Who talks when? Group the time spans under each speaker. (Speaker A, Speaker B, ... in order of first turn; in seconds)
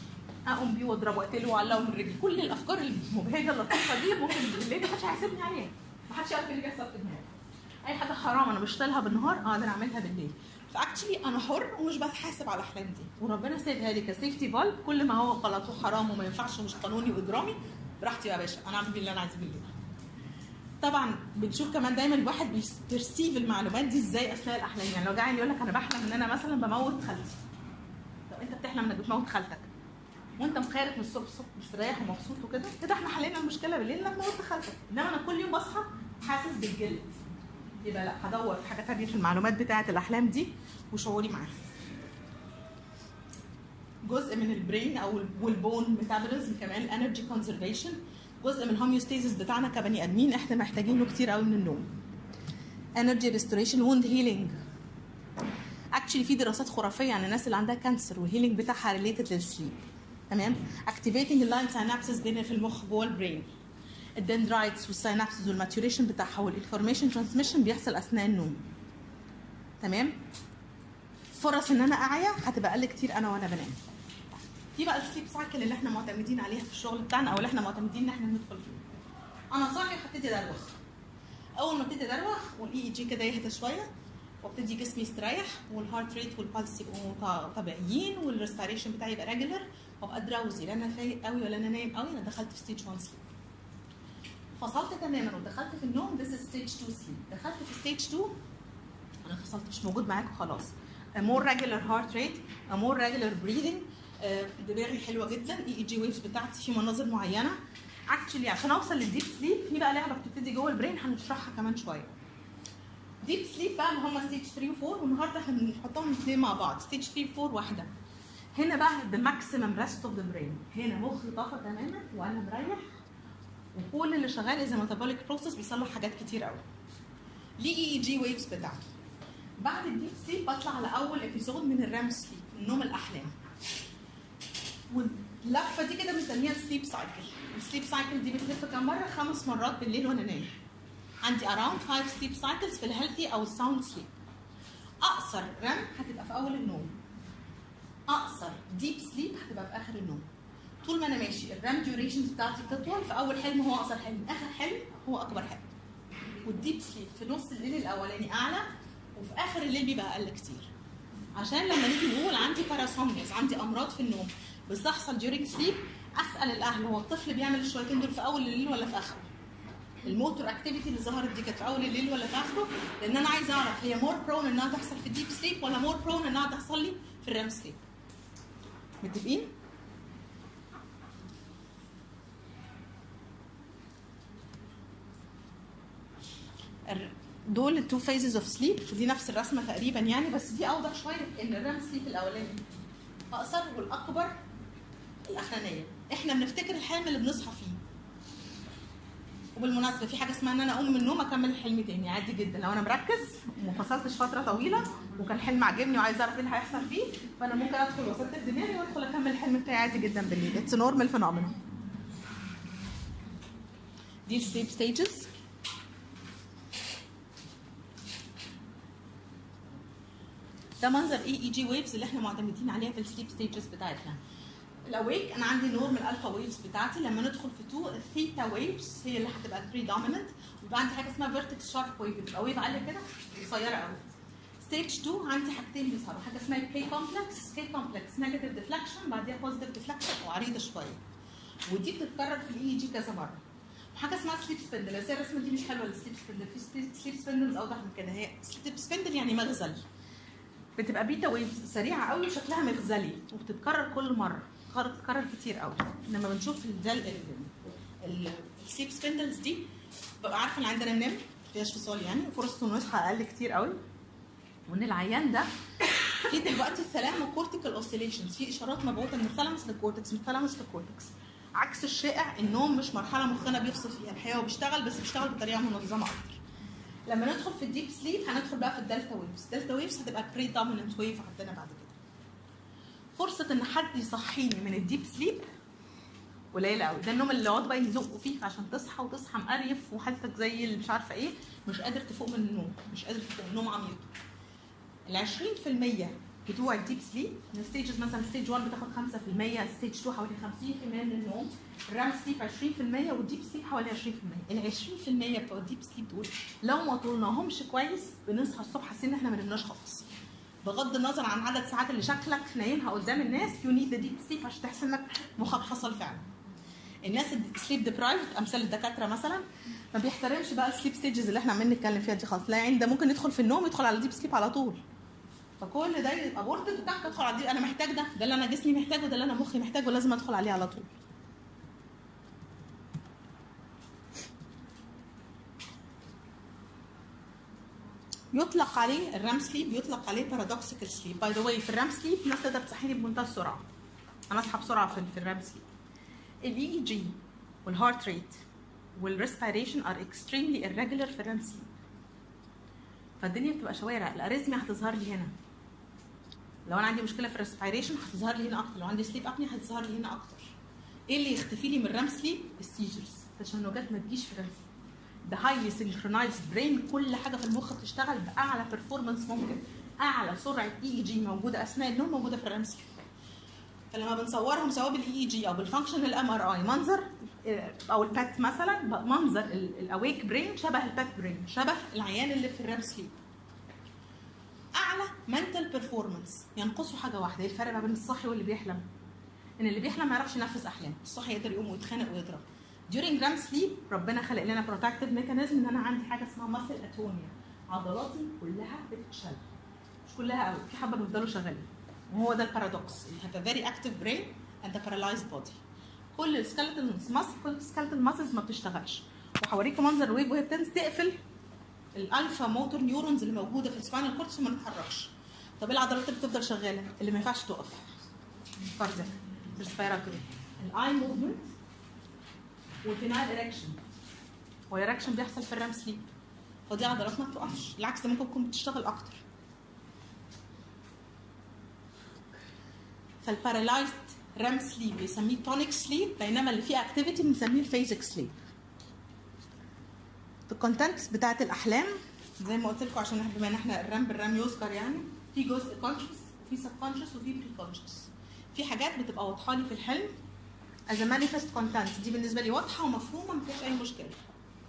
Speaker A: 0.5-7.3, 7.8-19.7, 20.8-27.4, 28.3-29.7, 30.4-37.2, 37.8-41.6, 44.0-51.9, 53.0-54.6, 55.9-59.8, 60.3-63.5, 64.2-68.6, 69.8-70.2, 71.3-73.8, 74.8-78.8, 79.5-80.8, 81.6-83.9, 84.4-93.2, 94.6-98.3, 99.2-107.5, 108.1-112.1, 113.2-117.9, 118.5-122.8, 123.8-126.6, 127.6-128.8, 129.6-133.3, 134.9-140.5, 141.2-144.1, 145.0-147.0, 148.1-150.2, 150.8-155.7, 156.4-160.7, 161.3-169.3, 170.0-177.8, 179.0-179.5, 186.9-192.6, 193.3-194.3, 195.2-197.8, 199.6-211.6, 214.3-215.3, 220.8-224.2, 224.8-234.0, 234.6-241.0, 241.7-243.4, 243.9-249.8, 250.8-259.7, 260.2-263.8, 264.7-265.5, 266.2-276.4, 277.1-281.9, 283.2-285.5, 286.5-294.1, 295.1-310.0, 310.6-316.2, 317.0-324.8, 325.6-330.9, 338.3-343.6, 344.3-345.6, 346.4-348.4, 349.0-351.7, 353.2-355.3, 356.6-360.5, 361.1-364.6, 365.2-372.9, 373.9-383.2, 384.8-388.8, 389.6-399.4, 400.1-405.6, 406.1-411.1, 411.9-417.9, 418.7-421.5, 422.8-423.8, 424.7-426.1, 426.7-429.2, 433.2-438.3, 440.5-450.1, 450.9-454.2